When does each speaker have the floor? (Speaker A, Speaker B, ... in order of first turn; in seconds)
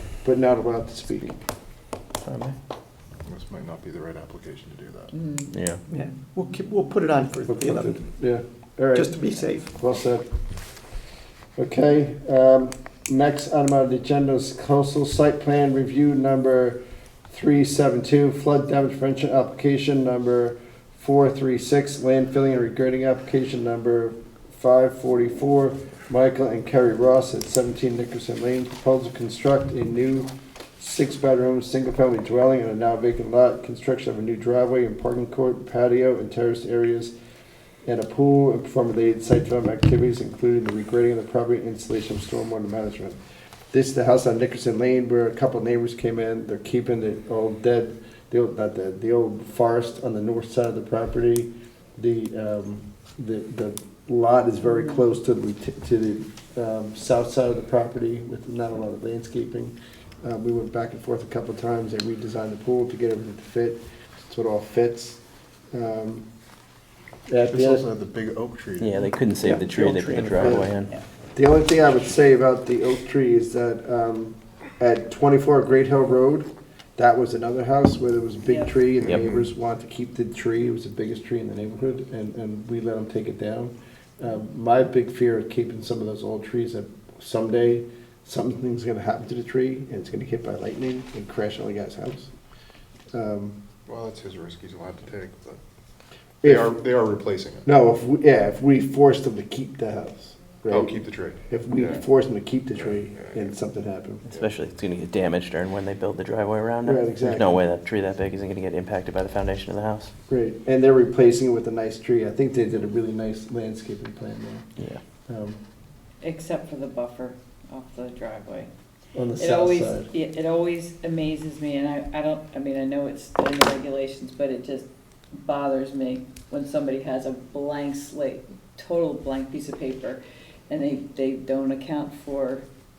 Speaker A: 0.2-1.4, 7.5-10.3, 11.6-37.1, 37.8-43.2, 43.7-65.2, 65.7-66.2, 67.3-67.8, 70.4-70.7, 71.3-92.3, 93.1-93.5, 96.4-96.8, 97.7-104.2, 106.8-107.6, 110.3-114.7, 115.3-115.6, 119.1-120.1
Speaker B: 2.2-2.5, 5.5-5.8, 68.8-70.9, 104.3-110.1
Speaker C: 3.3-5.1, 67.5-69.1, 79.0-79.4, 93.9-95.6, 96.4-97.7, 100.7-102.0, 102.8-103.5
Speaker D: 5.1-5.5, 54.7-55.0, 78.5-78.8, 116.2-118.7, 119.4-124.9, 125.4-132.6
Speaker E: 5.9-8.0, 8.9-9.7, 69.4-70.7